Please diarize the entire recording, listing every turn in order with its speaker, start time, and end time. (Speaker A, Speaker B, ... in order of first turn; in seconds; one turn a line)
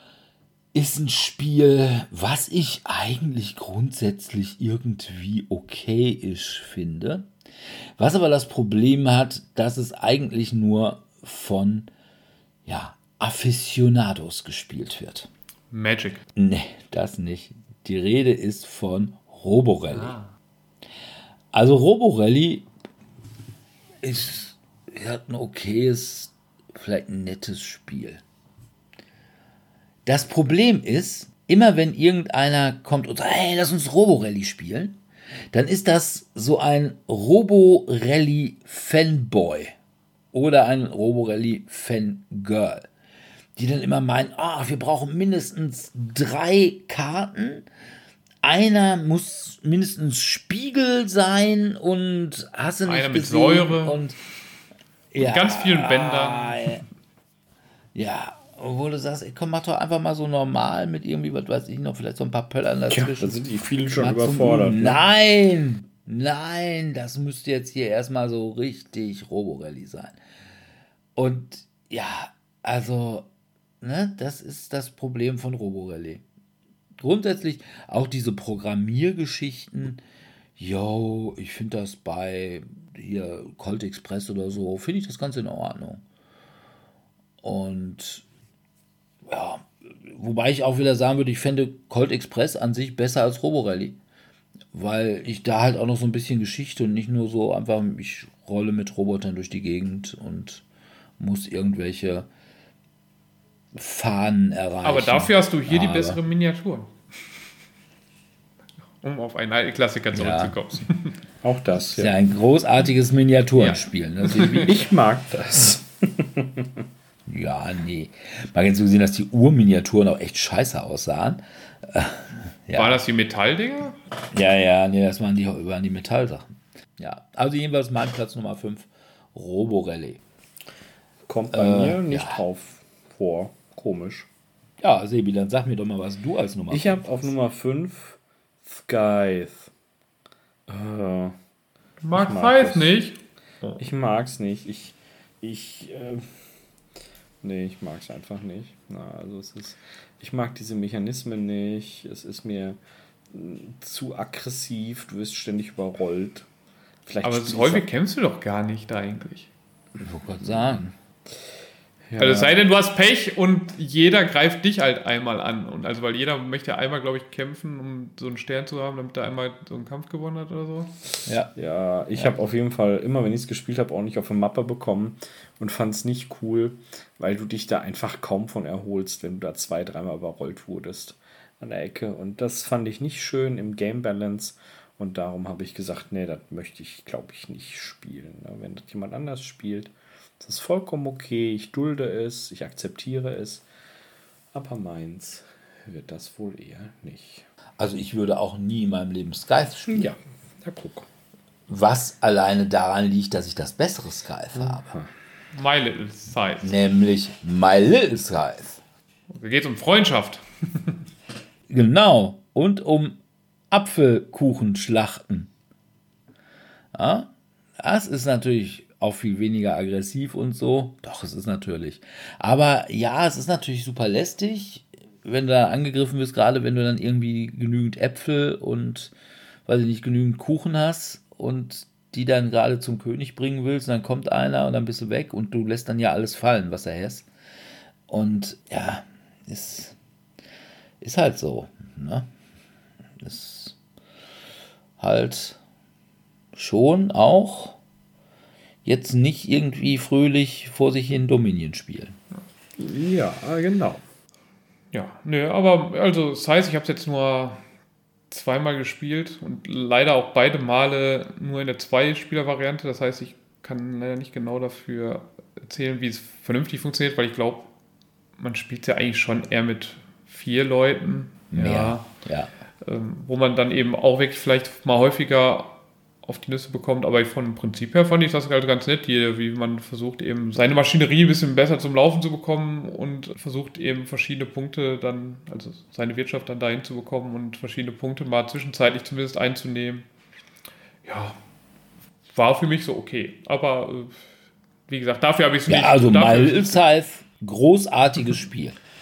Speaker A: 0.7-7.3
Speaker A: 8.0-11.9
Speaker A: 12.7-15.3
Speaker B: 15.7-16.2
Speaker A: 16.4-20.1
Speaker B: 19.9-20.3
Speaker A: 21.5-22.7
Speaker A: 24.0-28.2
Speaker A: 30.1-35.0
Speaker A: 35.5-39.8
Speaker A: 40.3-42.9
Speaker A: 43.6-47.7
Speaker A: 48.4-54.2
Speaker B: 52.9-54.0
Speaker A: 55.1-56.8
Speaker B: 55.2-56.8
Speaker A: 58.0-63.4
Speaker C: 62.9-65.0
Speaker A: 64.0-70.2
Speaker A: 71.2-73.3
Speaker A: 73.8-76.2
Speaker A: 77.0-80.0
Speaker A: 80.6-86.0
Speaker A: 87.4-88.2
Speaker A: 89.3-94.0
Speaker A: 94.7-100.6
Speaker A: 101.2-102.3
Speaker A: 103.7-106.2
Speaker B: 104.8-106.9
Speaker B: 109.0-111.2
Speaker A: 110.1-110.6
Speaker C: 111.4-112.1
Speaker A: 112.0-114.8
Speaker B: 113.5-114.7
Speaker C: 114.3-116.8
Speaker A: 117.3-123.0
Speaker B: 122.8-124.0
Speaker A: 124.3-130.2
Speaker C: 131.3-134.3
Speaker A: 131.5-132.4
Speaker A: 134.8-137.1
Speaker C: 136.7-139.7
Speaker C: 140.7-141.4
Speaker B: 142.0-143.8
Speaker C: 142.1-143.0
Speaker C: 143.8-146.3
Speaker C: 147.4-152.8
Speaker C: 153.3-156.5
Speaker C: 157.1-157.9
Speaker B: 157.2-159.5
Speaker A: 160.0-160.9
Speaker C: 162.1-162.6
Speaker B: 162.2-170.9
Speaker A: 171.3-171.5
Speaker C: 171.6-193.7
Speaker C: 194.5-197.5
Speaker A: 197.8-200.1
Speaker C: 199.9-201.1
Speaker A: 201.7-204.9
Speaker C: 204.6-205.1
Speaker B: 205.5-206.8
Speaker A: 206.6-208.8
Speaker B: 209.3-211.0
Speaker A: 211.7-213.2
Speaker A: 213.7-215.5
Speaker A: 216.9-229.1
Speaker A: 229.7-237.3
Speaker A: 238.1-240.0
Speaker A: 241.0-242.3
Speaker A: 243.2-243.8
Speaker A: 245.0-245.6
Speaker A: 246.6-247.8
Speaker A: 248.8-252.2
Speaker C: 252.8-254.0
Speaker B: 254.9-257.6
Speaker B: 258.3-267.7
Speaker B: 268.4-272.1
Speaker A: 271.5-272.5
Speaker B: 272.8-290.1
Speaker B: 291.1-291.4
Speaker B: 292.3-294.2
Speaker B: 294.9-296.8
Speaker A: 295.7-298.8